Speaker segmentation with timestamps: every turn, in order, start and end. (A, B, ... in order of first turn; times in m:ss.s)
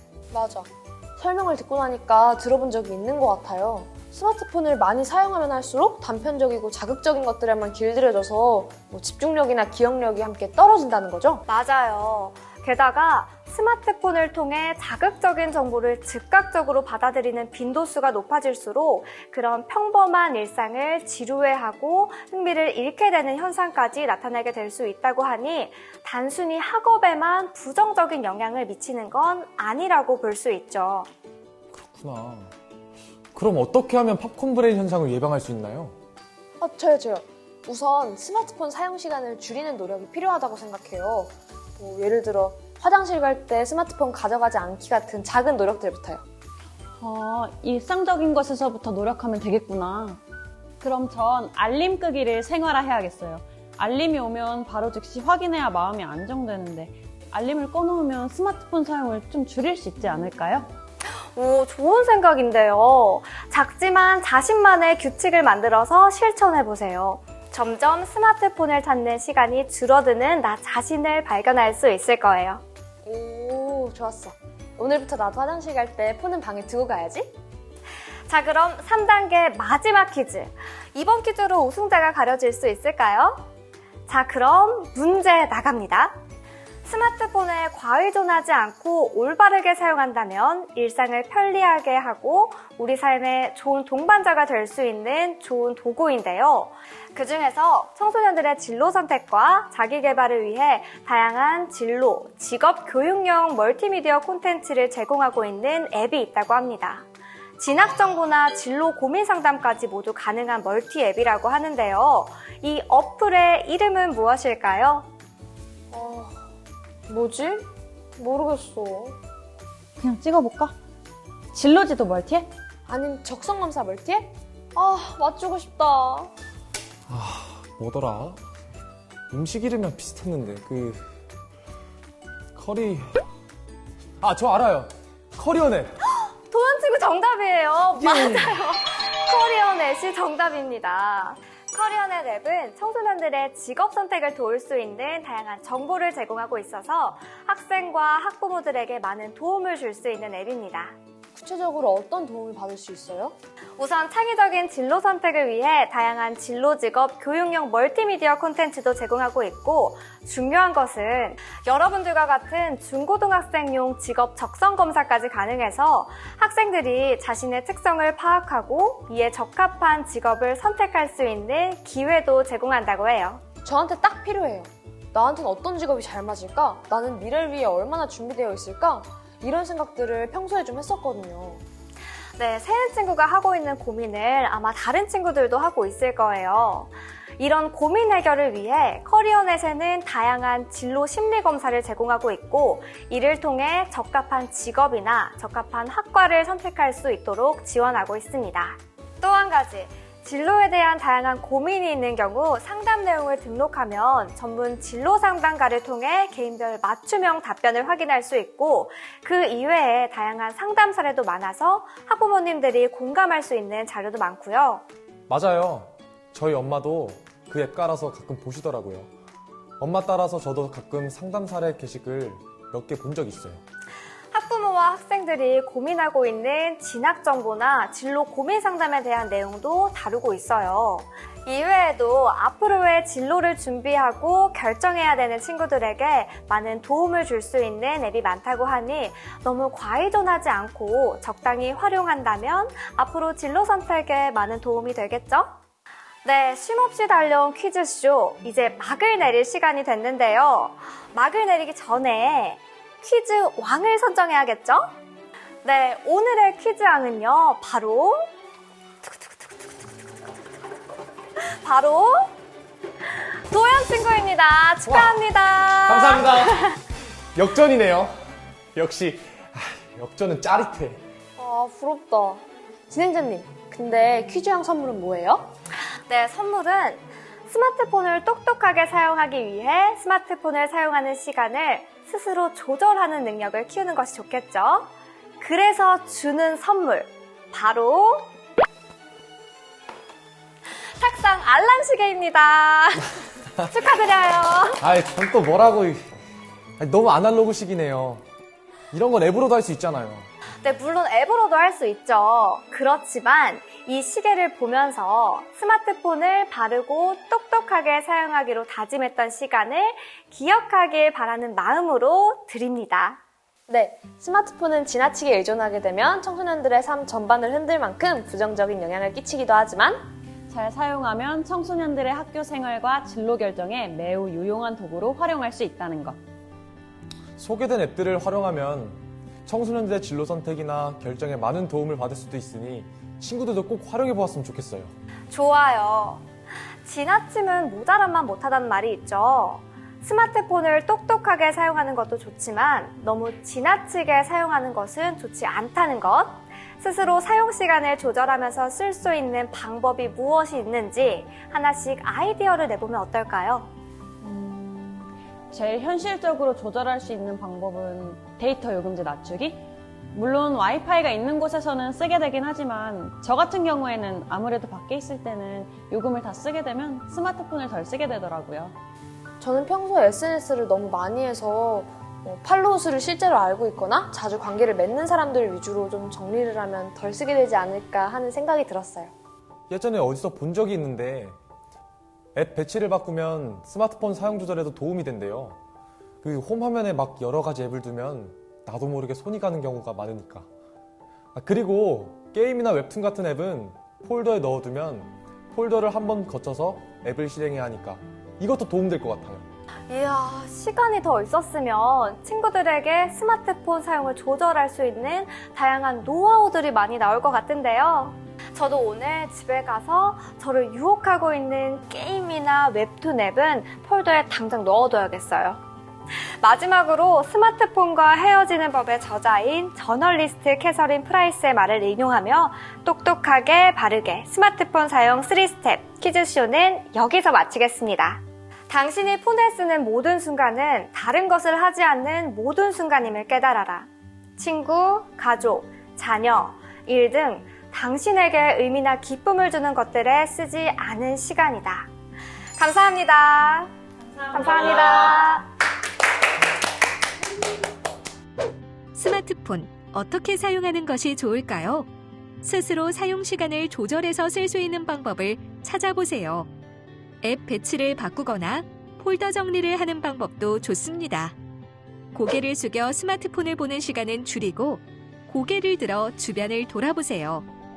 0:00.3-0:11.4 A
0:11.5-0:31.1 B
0:31.7-0:32.5 C
0:33.3-0:35.9 C
0:36.6-0:46.2 A
0:47.0-0:50.2 D
0:50.8-1:00.7 D
1:01.1-1:12.6 B
1:13.0-1:17.3 A
1:18.3-1:23.4 B
1:24.1-1:26.2 B
1:26.8-1:47.1 B
1:47.6-1:55.1 B
1:55.9-1:56.3 A
1:57.1-1:59.2 A
2:00.0-2:00.7 D
2:01.5-2:02.5 D
2:02.9-2:06.3 A
2:07.1-2:08.4 C
2:09.3-2:11.0 C
2:12.5-2:13.2 C
2:14.2-2:15.9 C
2:16.2-2:30.9 B
2:18.0-2:18.6 C
2:31.3-2:33.3 A
2:33.8-2:53.4 B
2:53.6-3:01.6 A
3:02.4-3:34.8 B
3:35.3-3:39.1 C
3:39.8-3:43.6 C
3:44.3-4:05.6 B
4:06.2-4:14.9 B
4:15.6-4:18.3 B
4:21.5-4:22.3 B
4:23.3-4:26.8 B
4:24.8-4:25.2 C
4:25.8-4:26.6 C
4:27.3-4:28.1 C
4:28.7-4:31.0 C
4:31.4-4:35.5 A
4:36.1-4:48.3 B
4:50.9-4:54.8 B
4:54.8-4:56.0 C
4:56.8-4:58.2 C
4:58.9-5:00.3 C
5:00.6-5:13.2 B
5:13.7-5:20.0 A
5:20.5-5:26.2 D
5:27.4-5:34.9 C
5:35.3-5:36.2 B
5:36.8-5:53.7 B
5:54.2-6:08.7 D
6:09.4-6:19.1 A
6:19.7-6:21.3 C
6:22.3-6:25.6 C
6:26.2-6:30.5 C
6:31.3-6:39.5 C
6:39.9-6:55.6 B
6:56.4-7:21.9 B
7:22.6-7:23.7 B
7:24.3-7:25.4 B
7:28.9-7:31.9 E
7:32.4-7:36.5 E
7:37.2-7:41.4 E
7:42.1-7:47.4 E